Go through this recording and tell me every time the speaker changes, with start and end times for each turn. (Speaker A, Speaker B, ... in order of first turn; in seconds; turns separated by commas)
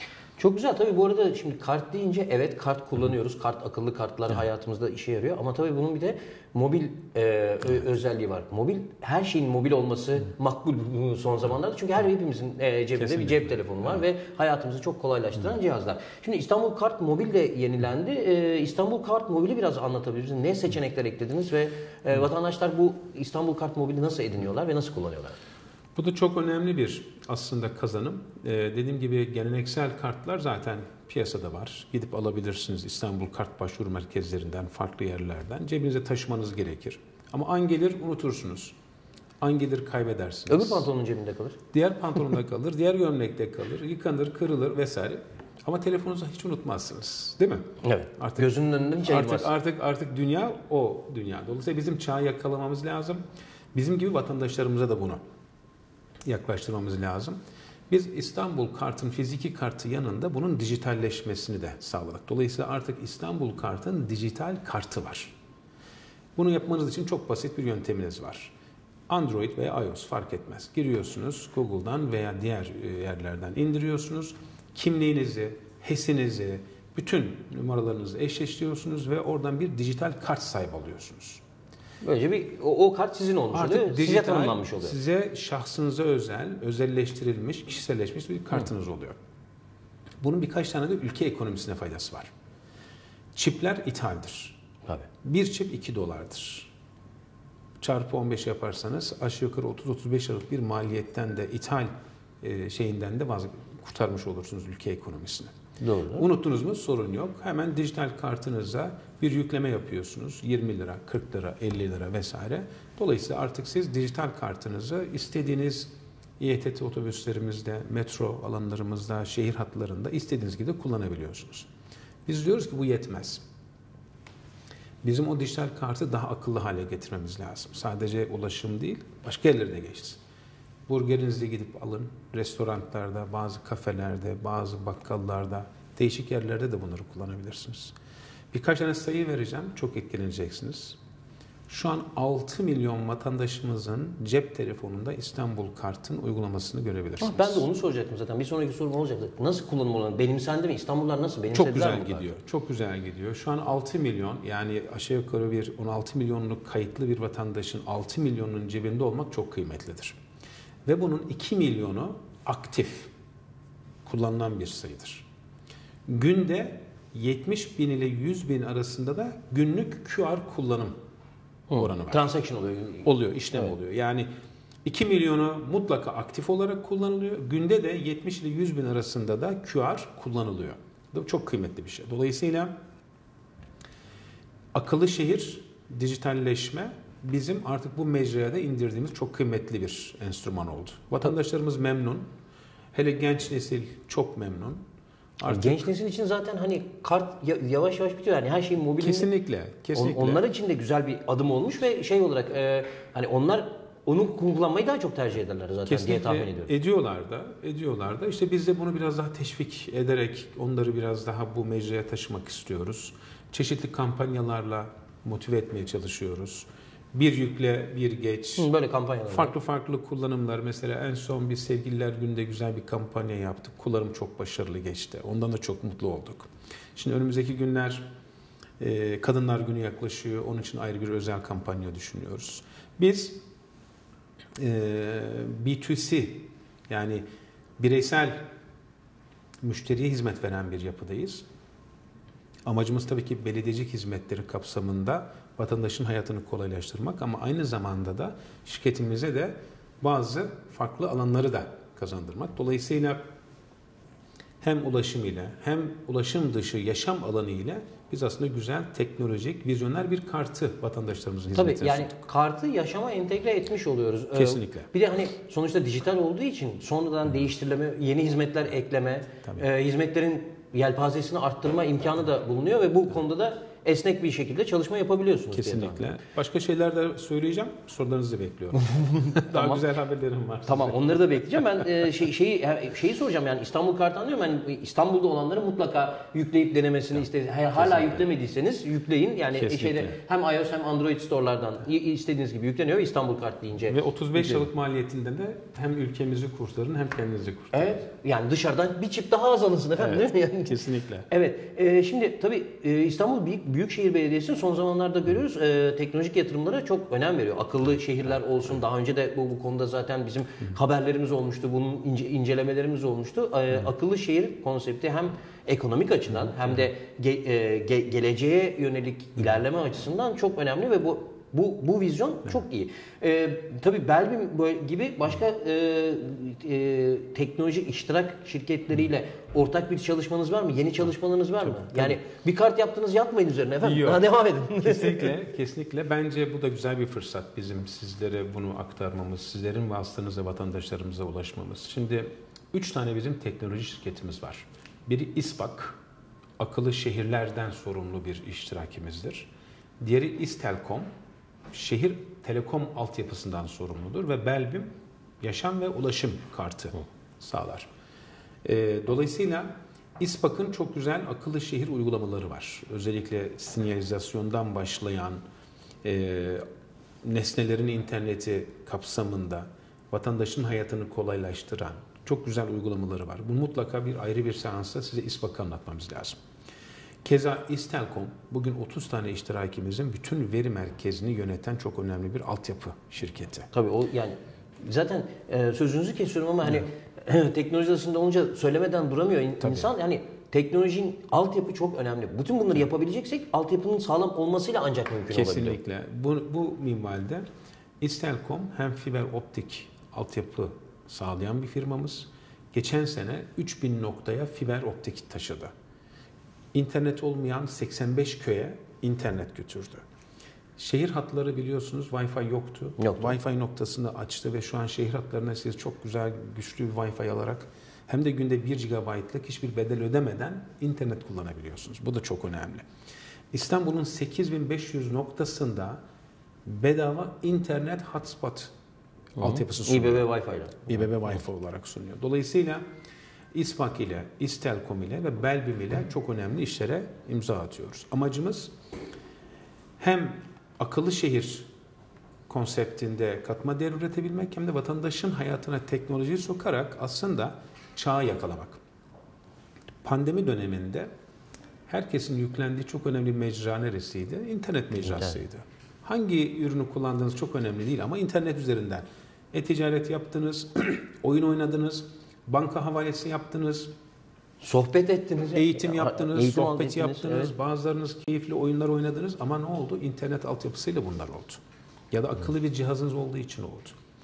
Speaker A: 0.4-25.4, Speaker B: 13.0-13.5, Speaker B: 26.0-38.7, Speaker B: 39.4-40.9, Speaker A: 40.5-41.6, Speaker B: 41.7-48.5, Speaker A: 47.8-49.5, Speaker B: 49.0-53.2, Speaker B: 53.7-55.2, Speaker B: 56.2-57.4, Speaker B: 57.9-65.3, Speaker B: 66.4-68.5, Speaker B: 69.1-81.4, Speaker A: 82.0-85.0, Speaker B: 83.5-89.2, Speaker B: 90.2-92.3, Speaker B: 93.3-94.6, Speaker B: 95.2-96.7, Speaker B: 97.8-101.9, Speaker B: 102.4-105.5, Speaker A: 105.8-106.3, Speaker B: 106.2-121.7, Speaker B: 122.3-123.4, Speaker B: 125.0-130.2, Speaker B: 130.9-137.9, Speaker B: 138.5-141.0, Speaker B: 141.7-147.7, Speaker A: 147.2-152.3, Speaker B: 151.5-160.2, Speaker B: 160.9-163.1, Speaker B: 164.1-165.2, Speaker B: 166.1-170.9, Speaker A: 171.7-173.7, Speaker B: 171.7-172.3, Speaker B: 173.1-174.3, Speaker B: 174.8-182.7, Speaker B: 184.7-192.2, Speaker B: 192.9-194.8, Speaker B: 195.4-195.9, Speaker A: 195.4-199.3, Speaker B: 199.0-200.4, Speaker A: 199.9-206.7, Speaker B: 205.9-218.7, Speaker A: 218.6-219.5, Speaker B: 219.3-228.1, Speaker B: 228.8-233.4, Speaker B: 234.6-237.2, Speaker B: 237.8-238.5, Speaker B: 239.6-241.4, Speaker B: 242.7-253.2, Speaker B: 254.6-262.1, Speaker A: 261.5-276.2, Speaker B: 264.3-264.9, Speaker B: 275.5-281.8, Speaker A: 278.9-279.8, Speaker A: 280.7-294.6, Speaker B: 287.8-288.2, Speaker B: 289.5-290.1, Speaker B: 293.9-298.0, Speaker A: 297.7-300.8, Speaker B: 300.0-301.3, Speaker A: 301.3-335.4, Speaker B: 331.7-332.2, Speaker B: 333.8-334.2, Speaker B: 334.8-345.9, Speaker B: 346.6-351.1, Speaker B: 351.7-354.9, Speaker B: 355.4-357.9, Speaker B: 358.6-365.4, Speaker B: 366.0-366.6, Speaker B: 367.2-376.4, Speaker B: 377.2-383.7, Speaker A: 383.7-395.8, Speaker B: 389.6-389.9, Speaker B: 395.3-397.5, Speaker B: 398.0-405.7, Speaker B: 406.7-410.0, Speaker B: 410.8-422.9, Speaker A: 413.0-413.4, Speaker B: 423.5-426.0, Speaker B: 426.6-428.7, Speaker B: 429.4-430.3, Speaker A: 429.4-431.0, Speaker B: 430.9-432.8, Speaker B: 433.5-438.7, Speaker B: 440.0-441.7, Speaker B: 442.5-448.8, Speaker B: 450.0-451.1, Speaker B: 451.9-463.9, Speaker A: 455.0-455.4, Speaker A: 464.6-467.5, Speaker B: 465.6-471.6, Speaker B: 472.1-473.9